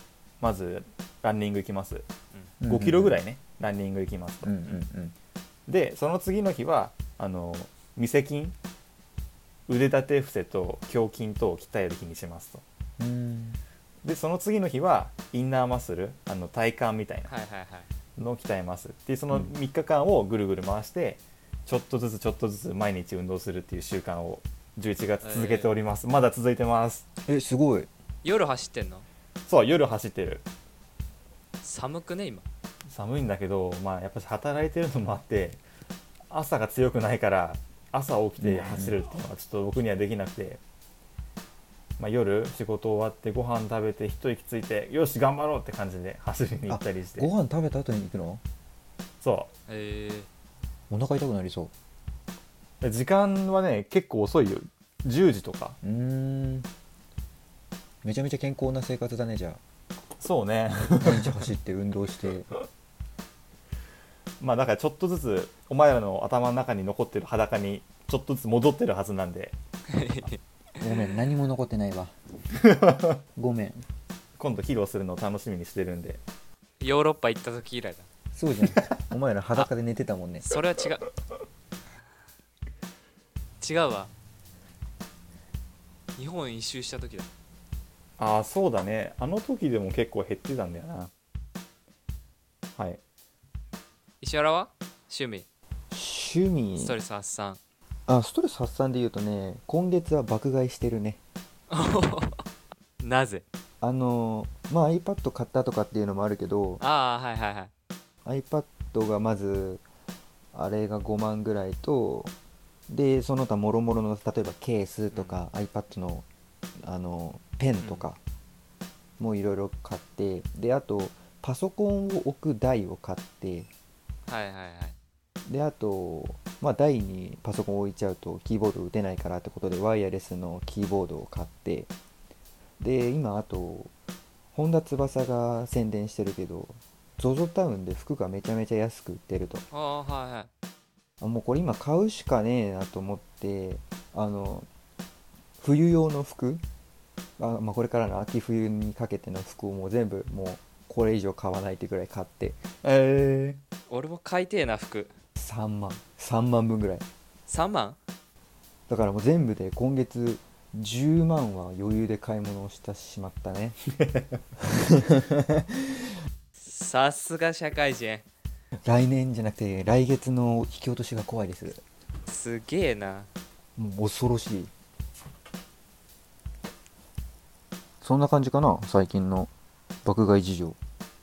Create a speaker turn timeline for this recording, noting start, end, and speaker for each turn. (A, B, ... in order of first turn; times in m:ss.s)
0:00.4-0:02.1 A
0:02.6-0:03.2 B
0:02.7-0:04.6 A
0:04.4-0:05.2 B
0:05.7-0:08.6 A
0:09.7-0:12.6 A
0:13.0-0:13.6 B
0:14.0-0:17.3 A
0:17.3-0:17.9 C
0:18.2-0:27.1 A
0:25.2-0:25.7 C
0:27.3-0:27.9 B
0:28.2-0:29.1 C
0:29.5-0:30.4 A
0:31.6-0:32.5 C
0:32.9-0:35.6 A
0:36.3-0:40.6 A
0:38.4-0:39.0 B
0:42.0-0:47.3 A
0:46.7-0:48.4 B
0:49.2-0:49.5 A
0:49.7-0:50.3 C
0:50.9-0:51.7 B
0:52.8-0:55.8 A
0:55.8-0:56.7 B
0:58.0-0:59.6 B
1:00.2-1:01.5 A
1:01.0-1:02.5 B
1:04.4-1:09.6 A
1:09.9-1:10.4 C
1:10.8-1:12.1 B
1:12.7-1:13.0 A
1:13.4-1:13.8 B
1:14.4-1:16.2 A
1:16.8-1:18.1 C
1:18.3-1:20.4 B
1:20.4-1:21.0 C
1:23.6-1:24.1 C
1:26.2-1:27.3 C
1:28.2-1:31.1 A
1:34.2-1:35.5 C
1:35.9-1:37.0 B
1:36.8-1:37.6 C
1:38.1-1:41.2 B
1:41.7-1:42.4 C
1:43.0-1:43.4 C
1:43.8-1:46.8 B
1:46.8-1:47.7 C
1:48.2-1:49.8 B
1:50.5-1:52.3 B
1:52.9-1:56.2 B
1:55.1-1:55.4 C
1:56.8-1:58.2 B
1:57.8-1:58.1 C
1:59.2-2:03.7 B
2:04.3-2:05.0 C
2:05.5-2:11.9 B
2:12.8-2:13.9 B
2:14.5-2:19.6 B
2:19.7-2:20.5 C
2:21.2-2:24.7 B
2:25.6-2:26.6 B
2:27.4-2:32.6 B
2:32.8-2:33.6 A
2:33.9-2:35.1 C
2:35.4-2:37.0 B
2:37.5-2:38.0 C
2:38.9-2:43.8 B
2:44.6-2:45.6 B
2:46.6-2:48.3 C
2:48.7-2:51.8 B
2:52.3-2:53.3 C
2:53.8-2:54.7 B
2:58.0-2:59.5 B
3:00.0-3:00.8 B